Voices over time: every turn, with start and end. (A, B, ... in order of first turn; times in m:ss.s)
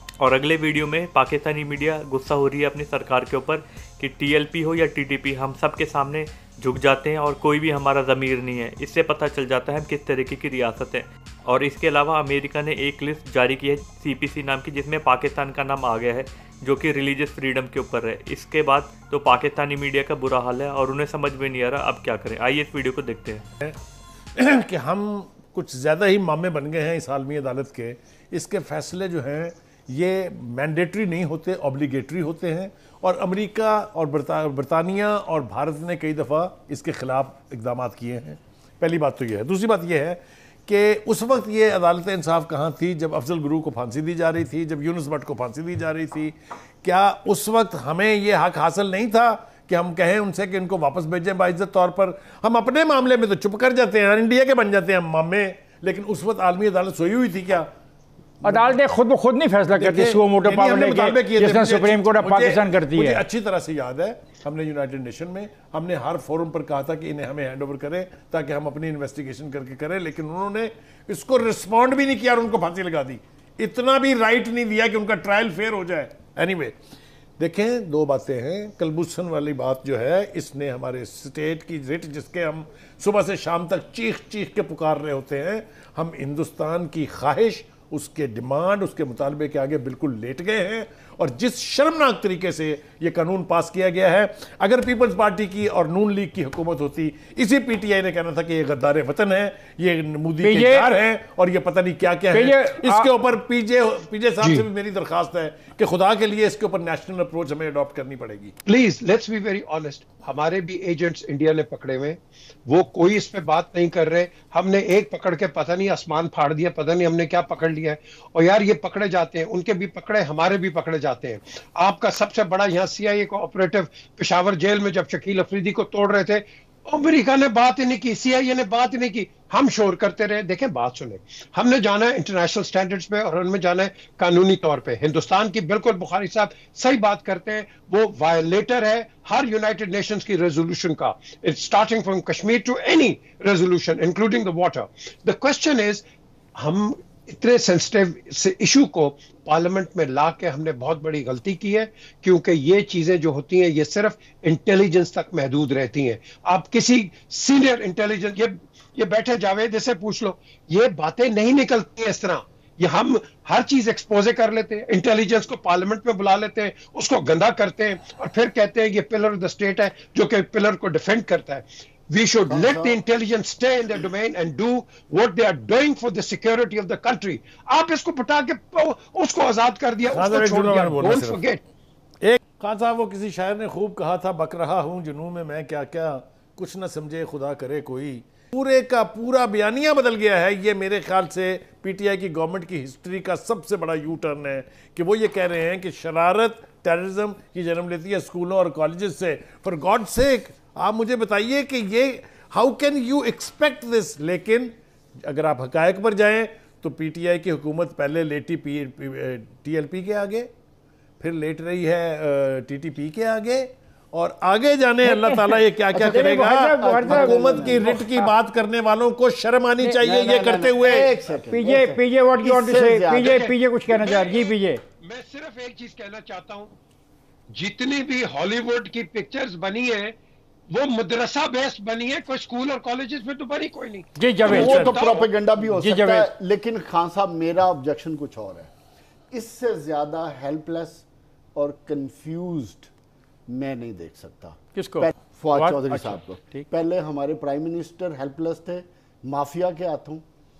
0:00.2-0:23.4 A
0:24.4-0:57.7 B
0:58.4-1:03.2 C
0:58.4-0:58.8 B
0:59.7-1:16.8 B
1:17.4-1:48.6 B
1:40.4-1:40.9 C
1:42.3-1:43.1 C
1:48.7-2:26.0 D
2:26.6-3:01.6 D
2:52.5-2:53.0 E
3:00.1-3:01.4 B
3:02.2-3:30.5 B
3:31.2-3:41.1 B
3:35.0-3:38.3 C
3:35.9-3:37.9 E
3:40.0-3:43.5 E
3:41.5-3:44.8 C
3:43.3-3:46.7 D
3:47.5-3:50.1 D
3:50.7-3:55.3 D
3:54.2-3:55.0 C
3:54.4-3:58.7 E
3:55.6-3:56.3 C
3:59.3-4:02.9 E
4:03.5-4:10.2 E
4:04.7-4:06.6 C